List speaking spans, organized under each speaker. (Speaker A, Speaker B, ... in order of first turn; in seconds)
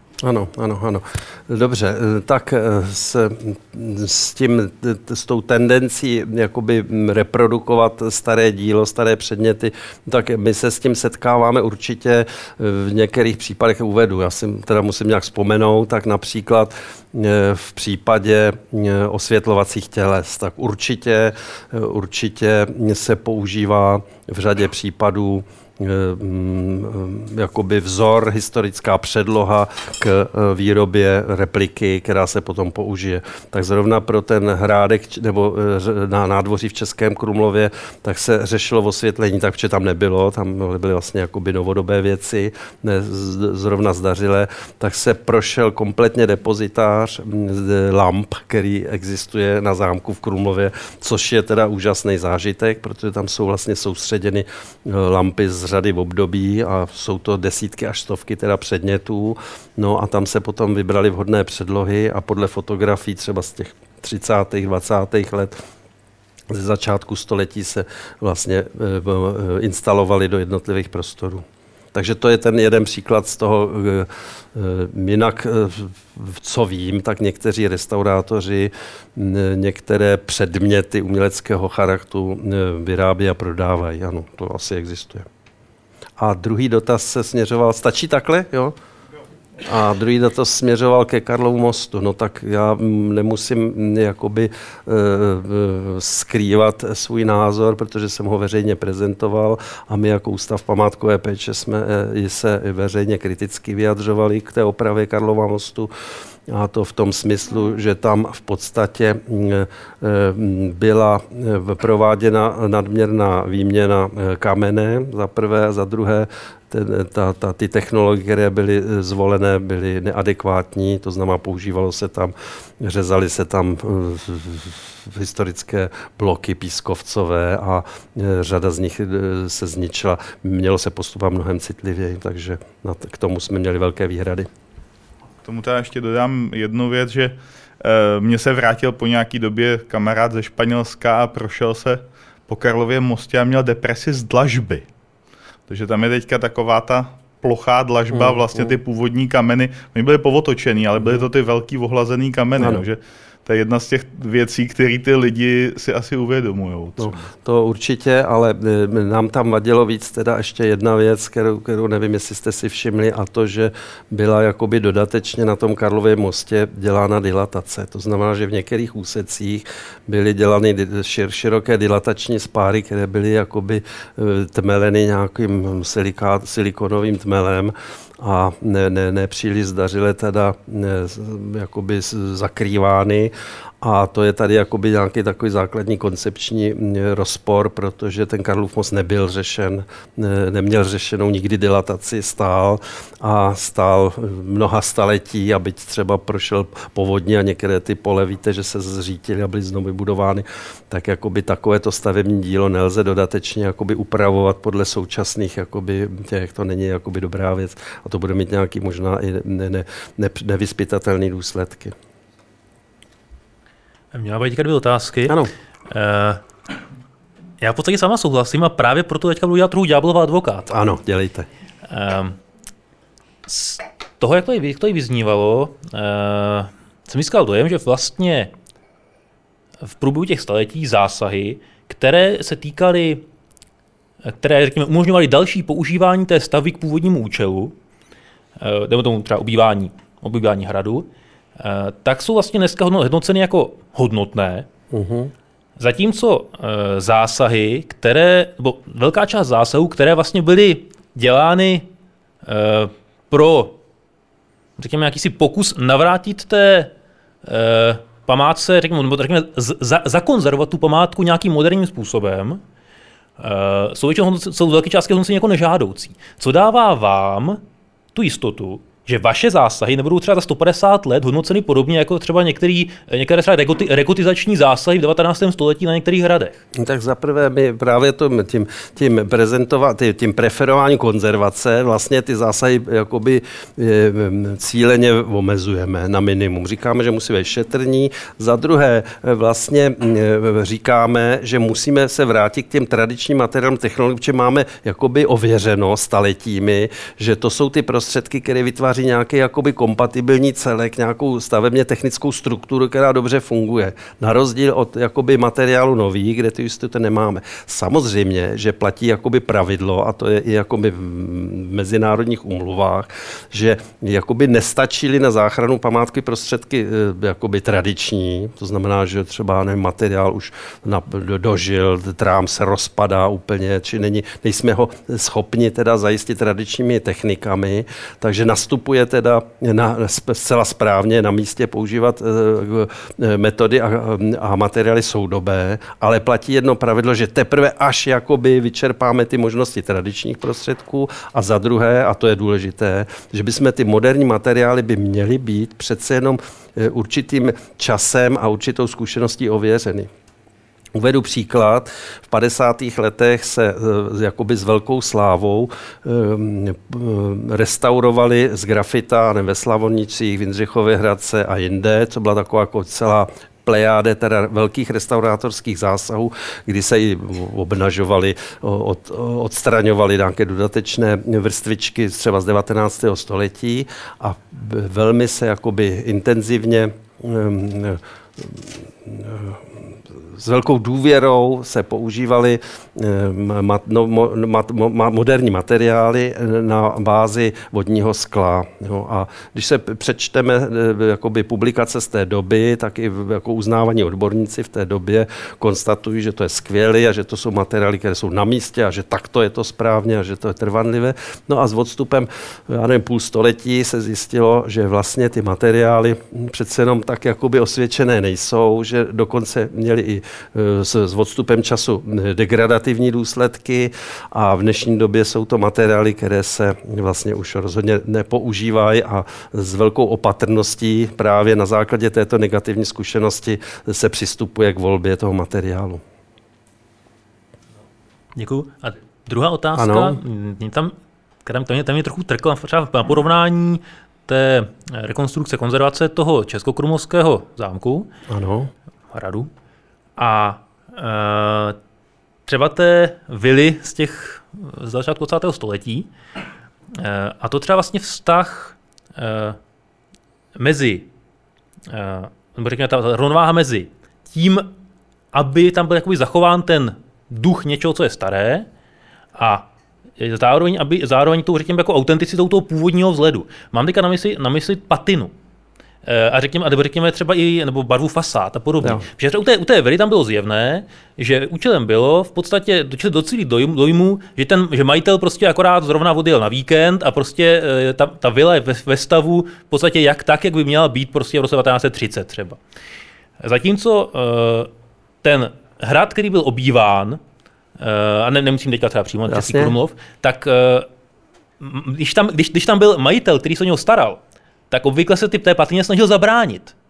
Speaker A: 0.2-65.6, 66.5-85.3, 86.2-88.8, 89.6-105.9, 106.5-134.5, 148.1-148.7, 152.6-152.8, 157.0-211.9, 215.3-215.5, 220.7-221.5, 244.9-245.3, 276.8-350.1, 350.9-379.6, 380.3-426.0, 429.8-430.2, 438.3-438.7, 468.8-469.1, 489.3-489.8
Speaker B: 135.4-144.8, 145.7-157.2
Speaker C: 214.1-215.4, 215.9-216.4, 217.6-220.7, 221.8-222.4, 223.5-228.5, 229.8-233.2, 234.2-237.8, 238.6-244.7, 245.8-251.9, 252.4-253.8, 254.8-256.9, 257.4-262.6, 263.4-267.6, 268.1-276.6, 428.4-438.1, 439.1-439.5, 440.2-441.8, 442.5-446.1, 447.0-449.6, 450.6-451.1, 451.9-454.7, 455.3-458.7, 459.4-465.3, 466.0-482.6, 483.4-484.7, 485.2-487.2, 487.8-490.9, 491.6-494.2, 494.7-496.7